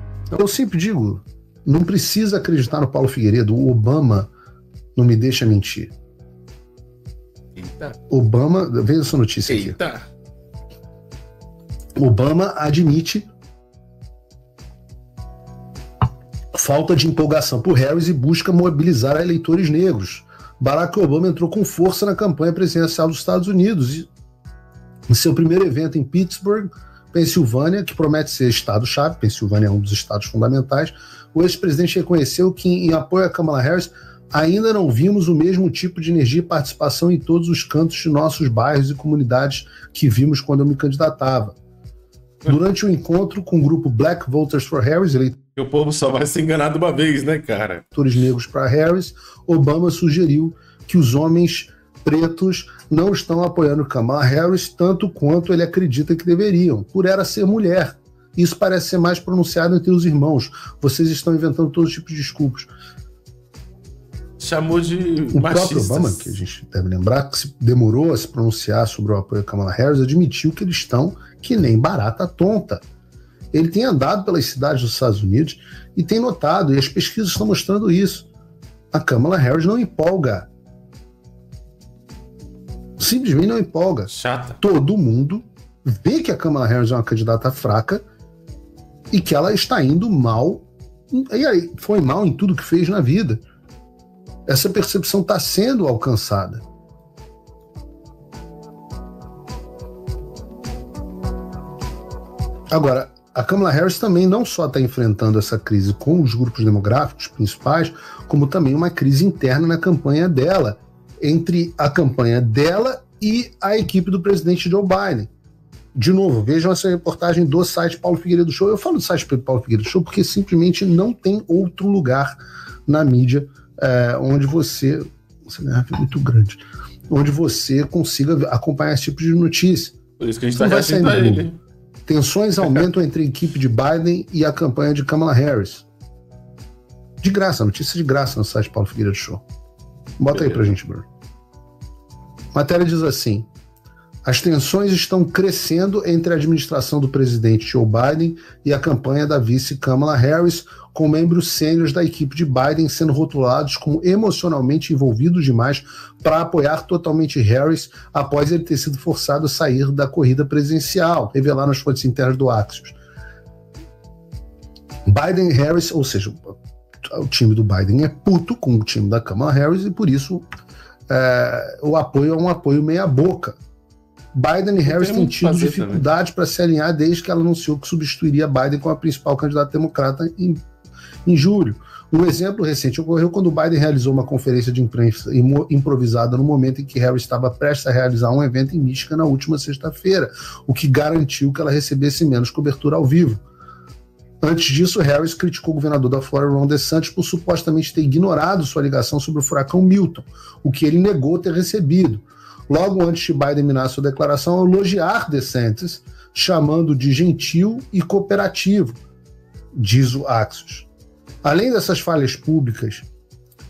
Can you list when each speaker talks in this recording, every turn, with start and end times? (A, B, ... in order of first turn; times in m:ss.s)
0:00.3-0:04.3 A
0:05.0-0:05.9 A
0:07.6-0:08.0 B
0:08.1-0:09.8 A
0:09.5-0:10.0 B
0:12.0-0:13.3 A
0:16.5-0:24.1 A
0:25.1-0:41.6 A
0:42.5-0:45.4 A
0:45.6-0:47.8 B
0:47.9-1:02.7 A
1:04.4-1:06.3 B
1:05.3-1:12.8 A
1:13.5-1:18.3 A
1:18.9-1:20.5 A
1:23.0-1:28.0 A
1:24.1-1:24.6 B
1:29.1-1:33.4 A
1:34.5-1:36.6 A
1:42.7-1:55.3 A
1:56.0-2:10.0 A
2:10.2-2:11.6 B
2:10.6-2:11.5 A
2:12.1-2:15.8 A
2:17.2-2:19.4 A
2:20.2-2:21.1 A
2:20.3-2:20.6 B
2:22.5-2:23.5 A
2:24.2-2:43.0 A
2:45.1-2:50.4 A
2:51.1-2:53.6 A
2:54.3-3:00.6 A
2:54.9-2:56.1 B
3:01.2-3:13.4 A
3:14.4-3:29.0 A
3:29.7-3:30.9 A
3:31.4-3:33.1 A